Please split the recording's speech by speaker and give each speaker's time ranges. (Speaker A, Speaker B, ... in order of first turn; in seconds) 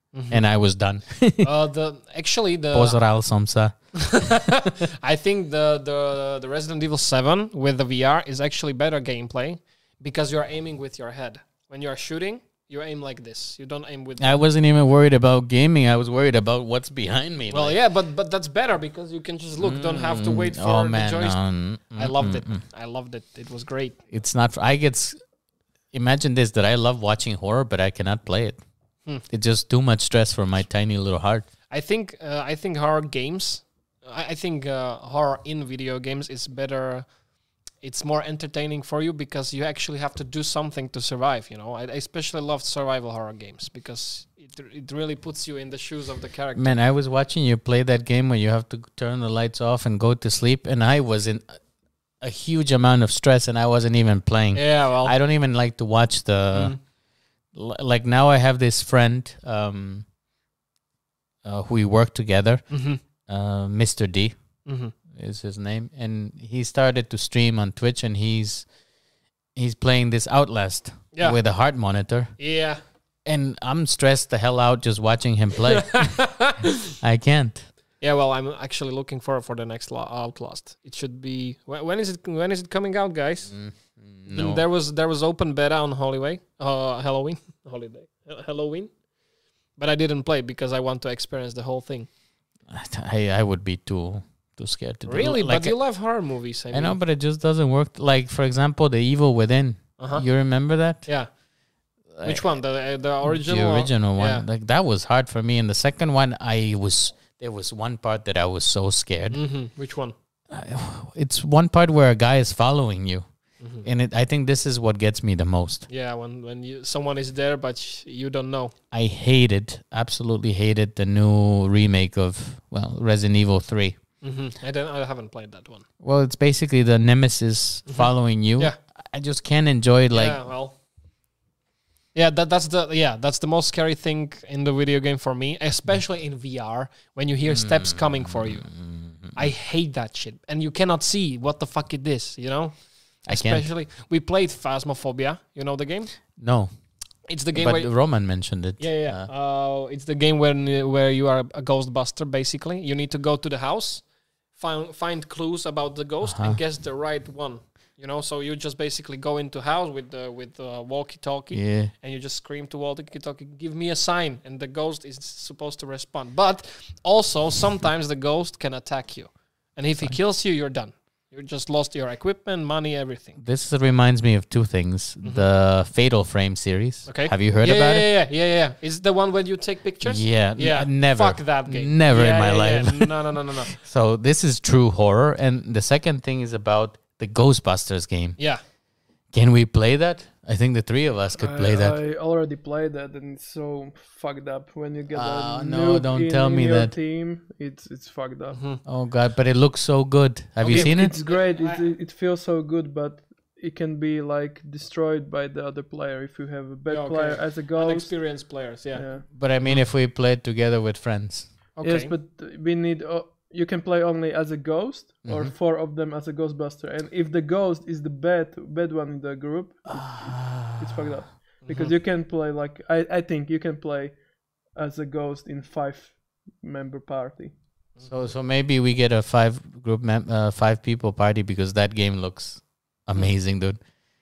Speaker A: 0.1-0.4, 1.4-3.0, 3.9-14.4, 17.5-21.4, 21.9-24.0, 31.7-37.1, 37.8-46.7, 54.5-55.1, 56.5-56.8, 62.7-63.0, 64.7-64.9, 72.4-72.8, 75.7-76.8, 78.0-83.5, 84.3-88.9, 89.8-92.1, 95.1-97.0, 100.0-100.3, 102.2-104.4, 109.3-110.1, 113.6-113.9, 115.9-118.7, 124.2-125.9, 127.9-128.8, 130.1-130.8, 132.2-138.7, 139.3-142.8, 143.3-146.1, 147.3-147.9, 148.8-154.0, 154.6-173.4, 177.1-183.7, 198.5-198.8, 200.6-201.9, 206.9-209.1, 211.8-212.1, 221.6-221.9
Speaker B: 0.3-1.5, 2.7-3.7, 14.2-17.8, 19.6-22.6, 24.1-25.1, 25.9-28.6, 29.3-31.5, 46.5-51.6, 52.2-56.8, 57.5-60.1, 61.4-62.6, 63.3-64.3, 65.1-68.7, 69.5-72.3, 73.3-76.3, 77.0-77.7, 83.5-84.6, 92.7-95.8, 96.7-101.1, 102.1-102.5, 103.2-109.4, 110.5-113.2, 113.8-115.9, 118.9-124.0, 126.0-130.4, 137.5-139.4, 143.3-143.7, 146.4-146.7, 147.6-149.3, 156.2-156.6, 161.5-161.9, 173.4-178.1, 180.0-188.4, 189.3-191.9, 195.1-196.9, 198.9-201.2, 209.3-211.5, 215.2-215.5, 219.9-221.2, 228.0-233.8
Speaker C: 191.4-198.6, 200.7-208.1, 208.9-209.3, 211.8-224.2, 224.7-227.6